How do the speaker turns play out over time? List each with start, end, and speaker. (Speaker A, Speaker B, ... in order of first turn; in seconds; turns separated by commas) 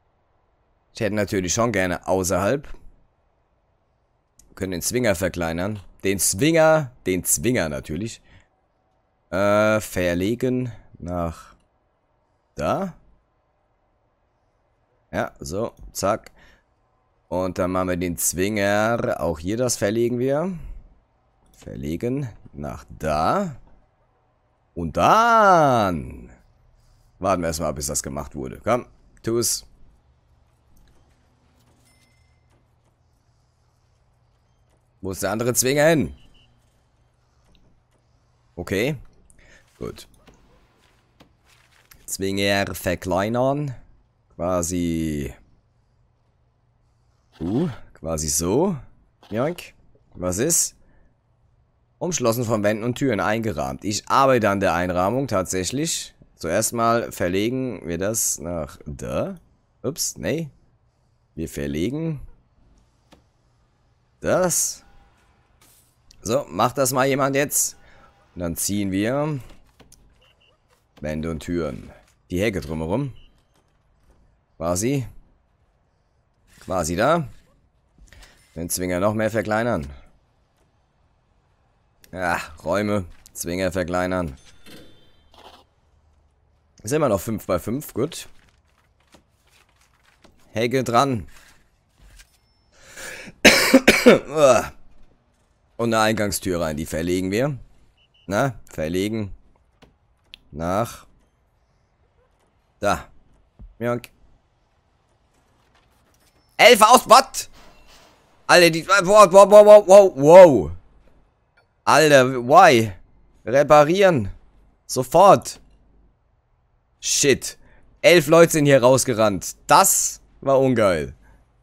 Speaker A: 0.9-2.7, Speaker A: 4.5-8.2, Speaker A: 9.3-11.5, Speaker A: 12.6-13.0, Speaker A: 15.1-16.3, Speaker A: 17.3-20.6, Speaker A: 21.6-23.6, Speaker A: 24.8-26.3, Speaker A: 27.2-29.7, Speaker A: 35.0-36.2, Speaker A: 38.5-39.0, Speaker A: 39.8-40.1, Speaker A: 42.0-43.8, Speaker A: 44.4-45.3, Speaker A: 47.4-48.8, Speaker A: 49.3-50.8, Speaker A: 52.0-60.5, Speaker A: 61.4-62.2, Speaker A: 64.2-64.8, Speaker A: 66.2-67.8, Speaker A: 68.3-69.4, Speaker A: 71.0-73.1, Speaker A: 74.6-75.1, Speaker A: 76.6-77.3, Speaker A: 78.5-79.9, Speaker A: 82.1-84.4, Speaker A: 86.8-88.3, Speaker A: 90.5-91.3, Speaker A: 93.4-94.7, Speaker A: 95.8-97.6, Speaker A: 98.3-99.3, Speaker A: 100.5-101.1, Speaker A: 102.8-103.1, Speaker A: 103.8-104.1, Speaker A: 106.6-107.5, Speaker A: 108.5-110.8, Speaker A: 111.8-114.3, Speaker A: 114.9-115.6, Speaker A: 117.0-121.2